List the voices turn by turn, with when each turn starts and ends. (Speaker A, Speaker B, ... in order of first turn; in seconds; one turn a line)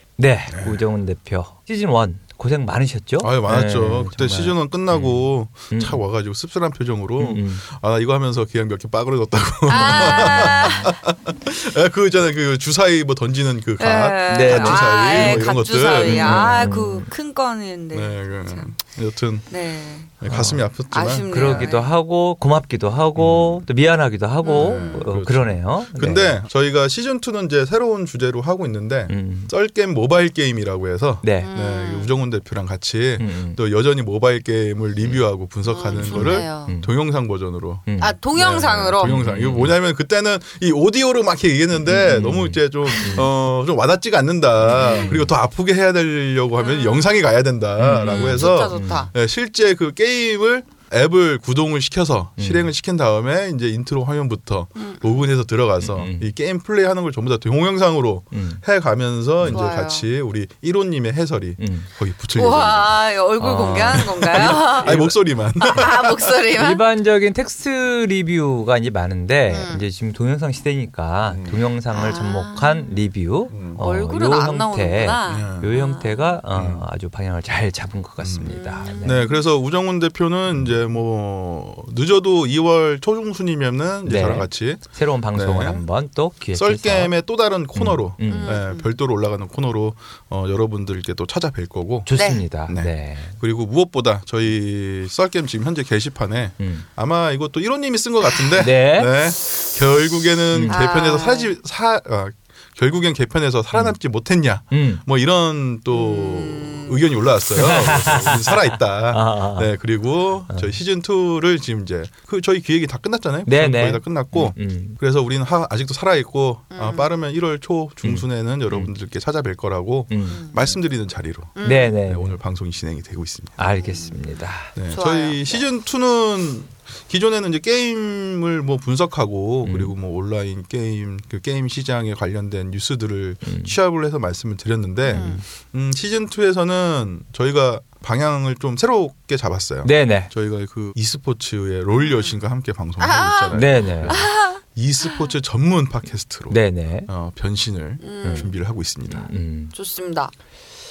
Speaker A: 0.2-6.0
Speaker B: 0.5-0.8
Speaker B: 3.2-16.6
Speaker A: 7.2-7.6
Speaker C: 9.7-10.9
Speaker A: 10.5-10.9
Speaker C: 13.8-18.7
Speaker A: 14.3-15.4
Speaker A: 16.0-17.1
Speaker B: 17.9-19.5
Speaker C: 19.5-20.1
Speaker B: 20.2-21.6
Speaker A: 20.2-20.6
Speaker C: 20.9-21.9
Speaker A: 21.3-26.4
Speaker B: 23.1-23.6
Speaker C: 24.4-25.1
Speaker B: 24.5-63.0
Speaker A: 29.1-29.5
Speaker A: 31.2-31.5
Speaker C: 31.4-32.1
Speaker A: 33.2-33.6
Speaker C: 35.7-36.7
Speaker A: 36.0-36.9
Speaker A: 37.9-38.2
Speaker C: 38.0-39.2
Speaker A: 39.0-39.8
Speaker A: 41.8-43.3
Speaker A: 44.7-45.3
Speaker C: 44.8-45.1
Speaker C: 46.6-47.1
Speaker A: 47.8-49.1
Speaker C: 48.0-49.1
Speaker A: 52.4-52.7
Speaker C: 54.8-55.2
Speaker A: 55.8-56.3
Speaker A: 58.3-58.6
Speaker C: 59.5-60.0
Speaker A: 61.6-61.9
Speaker C: 62.3-65.0
Speaker A: 63.4-65.1
Speaker B: 64.0-66.2
Speaker C: 65.6-66.8
Speaker A: 66.5-79.2
Speaker C: 69.5-69.8
Speaker B: 71.3-71.6
Speaker C: 71.9-73.0
Speaker B: 73.5-73.8
Speaker C: 73.8-76.4
Speaker B: 75.2-75.7
Speaker B: 76.5-76.8
Speaker B: 78.2-85.8
Speaker C: 78.5-79.3
Speaker A: 84.0-87.2
Speaker B: 86.5-92.1
Speaker A: 87.7-88.6
Speaker C: 88.2-88.9
Speaker A: 92.0-93.4
Speaker C: 92.1-92.4
Speaker B: 92.7-123.6
Speaker A: 96.6-96.8
Speaker A: 98.6-99.1
Speaker A: 100.5-100.8
Speaker C: 100.7-101.5
Speaker A: 104.7-105.0
Speaker C: 105.9-107.1
Speaker A: 107.6-108.6
Speaker A: 109.1-109.7
Speaker A: 110.5-110.8
Speaker A: 113.5-115.0
Speaker C: 116.7-117.1
Speaker A: 118.0-118.9
Speaker A: 120.1-120.4
Speaker C: 120.3-120.8
Speaker C: 121.6-122.0
Speaker A: 121.6-122.3
Speaker A: 123.6-124.7
Speaker C: 123.8-124.3
Speaker B: 124.8-149.3
Speaker C: 124.9-125.6
Speaker A: 129.6-129.9
Speaker A: 133.4-133.7
Speaker C: 135.1-135.4
Speaker A: 135.1-135.4
Speaker A: 139.8-140.3
Speaker C: 142.0-142.3
Speaker C: 143.0-145.2
Speaker A: 143.5-144.2
Speaker A: 146.5-147.1
Speaker C: 148.0-148.5
Speaker A: 148.2-148.5
Speaker A: 149.1-149.7
Speaker C: 149.7-150.3